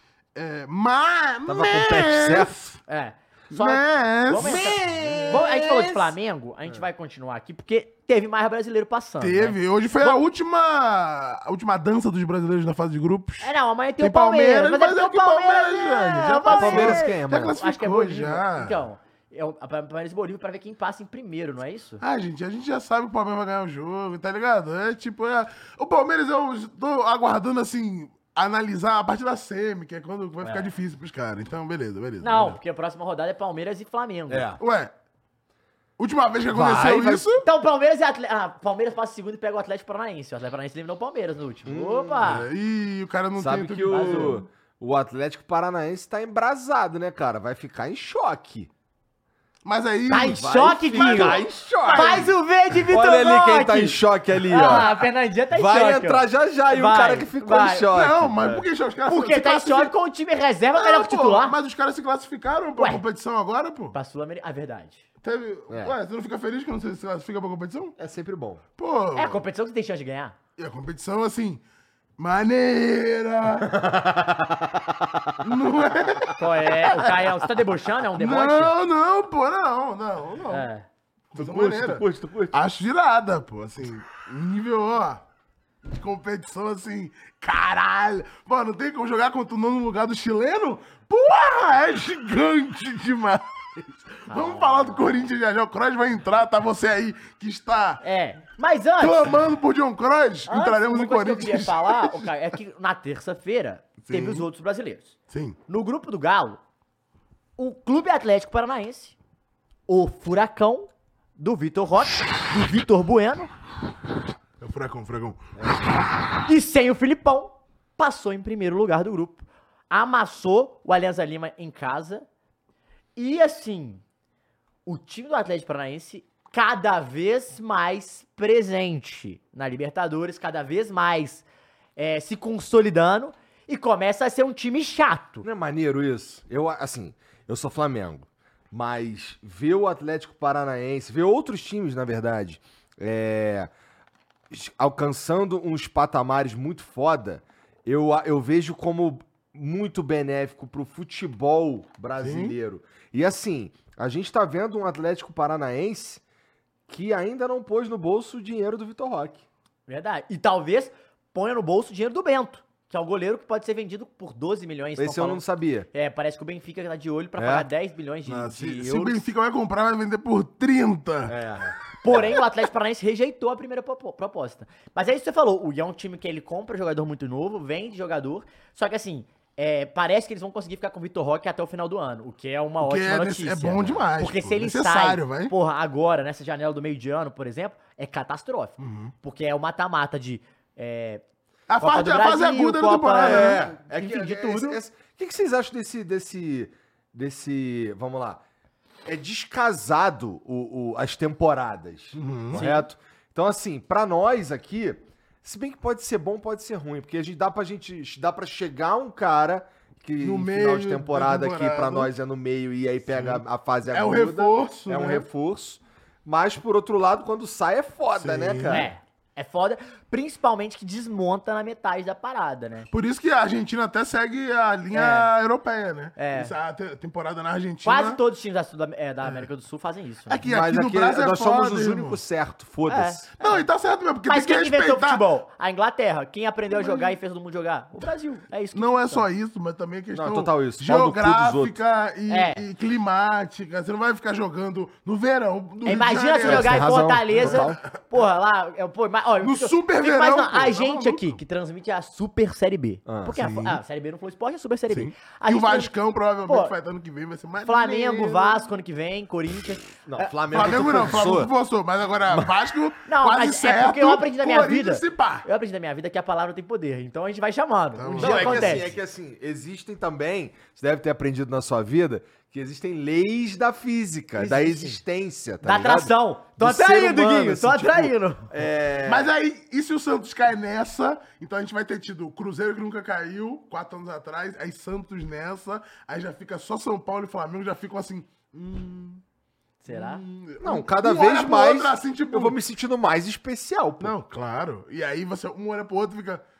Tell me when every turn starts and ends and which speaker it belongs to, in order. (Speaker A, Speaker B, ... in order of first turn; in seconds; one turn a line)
Speaker A: 0.3-2.8
Speaker B: 1.5-2.5
Speaker C: 2.9-10.2
Speaker A: 3.5-5.4
Speaker B: 4.4-6.1
Speaker A: 9.2-18.8
Speaker C: 13.4-22.0
Speaker B: 16.5-17.6
Speaker A: 22.0-32.6
Speaker C: 30.4-30.7
Speaker C: 32.2-34.5
Speaker B: 34.3-34.6
Speaker A: 34.6-34.9
Speaker A: 36.0-37.4
Speaker B: 36.5-37.3
Speaker C: 37.4-42.5
Speaker B: 41.6-42.3
Speaker A: 42.2-44.4
Speaker B: 43.4-48.7
Speaker C: 43.9-44.4
Speaker A: 49.6-52.3
Speaker C: 50.1-57.9
Speaker B: 50.2-52.3
Speaker B: 52.9-58.6
Speaker A: 57.9-59.9
Speaker C: 59.1-61.5
Speaker A: 60.7-63.9
Speaker C: 62.8-63.0
Speaker C: 63.9-65.0
Speaker A: 65.2-67.9
Speaker B: 65.7-66.0
Speaker B: 68.0-68.6
Speaker A: 68.8-69.4
Speaker C: 69.1-70.3
Speaker A: 70.6-71.6
Speaker A: 72.2-73.7
Speaker B: 73.6-75.5
Speaker A: 75.4-77.1
Speaker C: 76.3-78.7
Speaker A: 78.2-80.7
Speaker C: 80.5-80.8
Speaker A: 81.3-85.2
Speaker B: 81.3-82.6
Speaker A: 85.8-98.0
Speaker C: 94.3-95.2
Speaker C: 98.0-99.2
Speaker A: 99.0-102.3
Speaker C: 100.5-105.1
Speaker A: 104.0-104.5
Speaker A: 105.3-105.6
Speaker C: 105.7-106.6
Speaker C: 107.6-109.2
Speaker C: 109.9-113.5
Speaker A: 114.6-115.9
Speaker B: 115.6-115.9
Speaker C: 116.4-122.2
Speaker C: 123.2-124.0
Speaker C: 124.8-131.4
Speaker C: 131.9-135.4
Speaker B: 135.4-143.7
Speaker B: 144.5-156.2
Speaker A: 152.2-152.5
Speaker B: 156.9-159.4
Speaker C: 159.9-169.2
Speaker B: 165.0-165.9
Speaker B: 167.4-167.7
Speaker A: 168.2-171.3
Speaker B: 171.3-171.8
Speaker C: 172.0-191.2
Speaker A: 182.8-185.5
Speaker A: 188.8-189.1
Speaker A: 191.7-193.7
Speaker C: 191.8-194.8
Speaker B: 193.2-198.4
Speaker B: 199.0-218.9
Speaker A: 202.1-202.7
Speaker C: 202.5-202.8
Speaker A: 210.2-212.1
Speaker A: 213.1-215.3
Speaker A: 218.2-218.9
Speaker C: 218.7-222.9
Speaker A: 222.9-228.2
Speaker C: 224.9-225.3
Speaker C: 226.2-226.5
Speaker C: 227.8-230.4
Speaker A: 230.3-232.2
Speaker B: 230.4-233.3
Speaker C: 232.9-233.7
Speaker A: 233.4-235.2
Speaker C: 234.3-239.2
Speaker A: 236.7-237.2
Speaker A: 238.7-247.8
Speaker B: 240.1-241.8
Speaker C: 242.3-242.6
Speaker C: 245.8-255.9
Speaker B: 246.4-247.8
Speaker A: 249.4-251.4
Speaker B: 253.1-253.4
Speaker A: 253.3-253.8
Speaker A: 254.9-258.6
Speaker C: 256.5-256.7
Speaker C: 257.6-260.7
Speaker B: 260.1-261.5
Speaker A: 260.5-265.4
Speaker C: 263.0-268.9
Speaker A: 268.0-268.9
Speaker B: 268.2-279.3
Speaker C: 274.4-275.0
Speaker C: 275.6-278.5
Speaker A: 279.0-289.2
Speaker C: 289.8-290.2
Speaker A: 289.9-292.6
Speaker B: 290.6-294.1
Speaker A: 294.0-296.4